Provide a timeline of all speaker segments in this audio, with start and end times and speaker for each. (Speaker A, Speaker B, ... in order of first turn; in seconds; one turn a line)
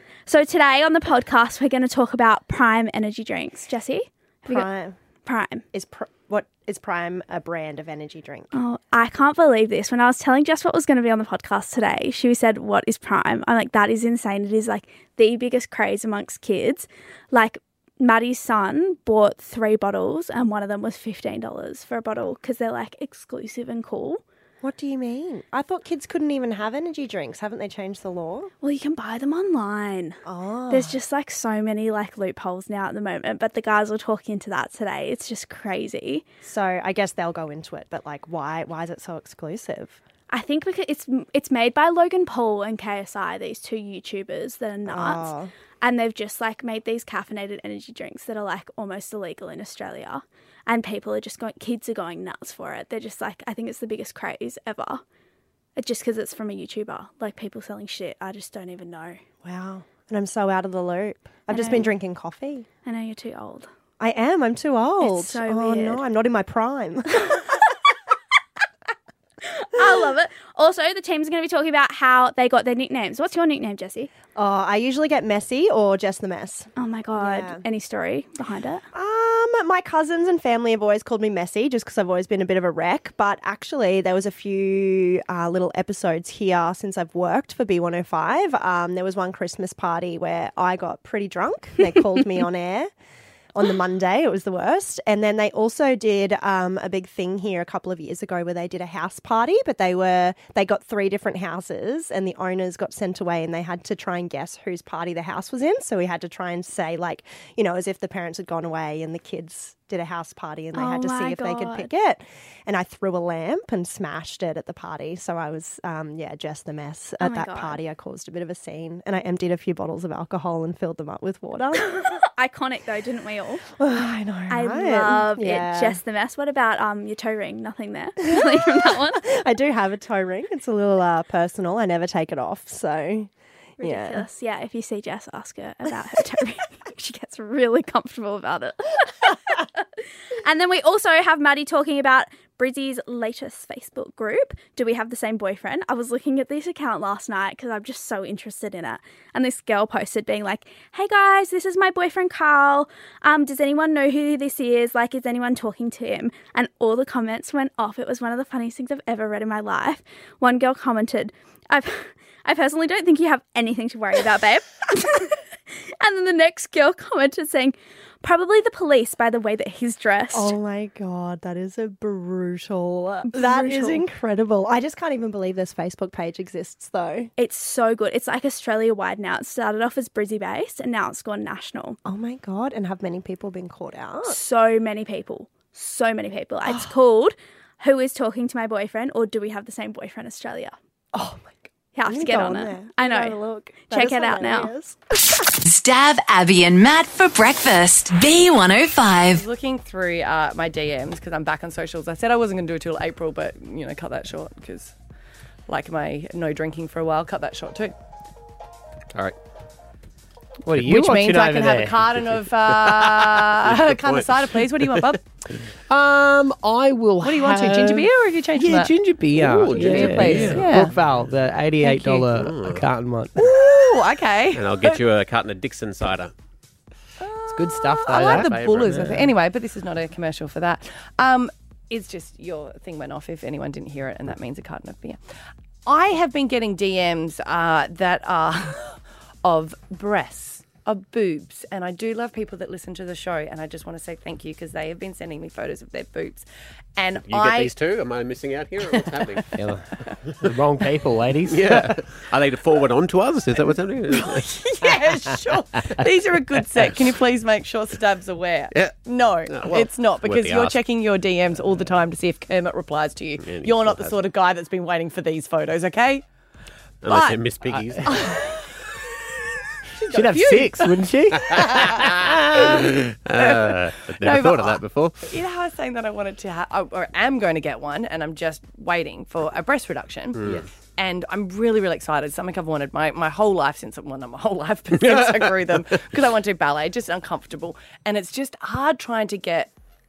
Speaker A: 0.3-4.7
Speaker B: 4.5-5.0
Speaker A: 5.3-5.7
Speaker B: 5.7-8.5
Speaker A: 8.5-24.2
Speaker B: 24.6-28.5
Speaker A: 28.6-30.2
Speaker B: 30.3-31.0
Speaker A: 30.7-36.3
Speaker B: 36.4-40.0
Speaker A: 40.3-45.3
Speaker B: 44.9-45.5
Speaker A: 45.8-55.0
Speaker A: 55.8-59.2
Speaker B: 59.4-62.7
Speaker A: 61.5-61.9
Speaker A: 62.8-63.7
Speaker B: 64.0-67.5
Speaker A: 65.0-66.0
Speaker A: 69.6-74.1
Speaker B: 69.8-70.1
Speaker B: 74.3-77.6
Speaker A: 76.8-78.8
Speaker B: 78.9-92.9
Speaker B: 93.5-121.9
Speaker A: 110.7-111.9
Speaker A: 117.2-117.8
Speaker A: 121.9-123.6
Speaker B: 123.8-126.0
Speaker A: 124.5-129.2
Speaker B: 128.3-134.2
Speaker A: 133.8-139.7
Speaker A: 140.4-165.4
Speaker A: 166.0-170.5
Speaker B: 170.3-177.3
Speaker A: 173.3-174.0
Speaker A: 177.4-182.0
Speaker B: 182.1-184.4
Speaker A: 184.2-190.7
Speaker B: 186.7-186.9
Speaker B: 191.1-195.0
Speaker A: 191.9-194.7
Speaker C: 195.6-199.4
Speaker D: 199.3-204.9
Speaker D: 205.7-207.9
Speaker E: 210.7-211.9
Speaker D: 210.8-215.2
Speaker F: 212.7-215.2
Speaker E: 215.9-223.4
Speaker D: 217.2-220.9
Speaker F: 219.4-220.7
Speaker D: 221.8-222.2
Speaker F: 222.3-222.8
Speaker D: 223.4-225.0
Speaker F: 224.5-226.3
Speaker D: 227.2-235.2
Speaker E: 227.5-229.2
Speaker F: 228.1-229.1
Speaker D: 235.8-246.4
Speaker D: 247.0-247.7
Speaker F: 247.3-249.5
Speaker D: 248.9-249.4
Speaker E: 249.5-251.9
Speaker F: 251.5-254.5
Speaker D: 254.1-266.2
Speaker F: 259.5-260.8
Speaker F: 263.4-264.2
Speaker F: 267.0-268.4
Speaker D: 267.1-267.4
Speaker D: 268.1-268.6
Speaker D: 270.0-271.0
Speaker E: 270.1-272.9
Speaker F: 271.5-275.2
Speaker D: 272.6-280.4
Speaker F: 280.4-280.6
Speaker D: 281.0-289.7
Speaker F: 285.1-285.4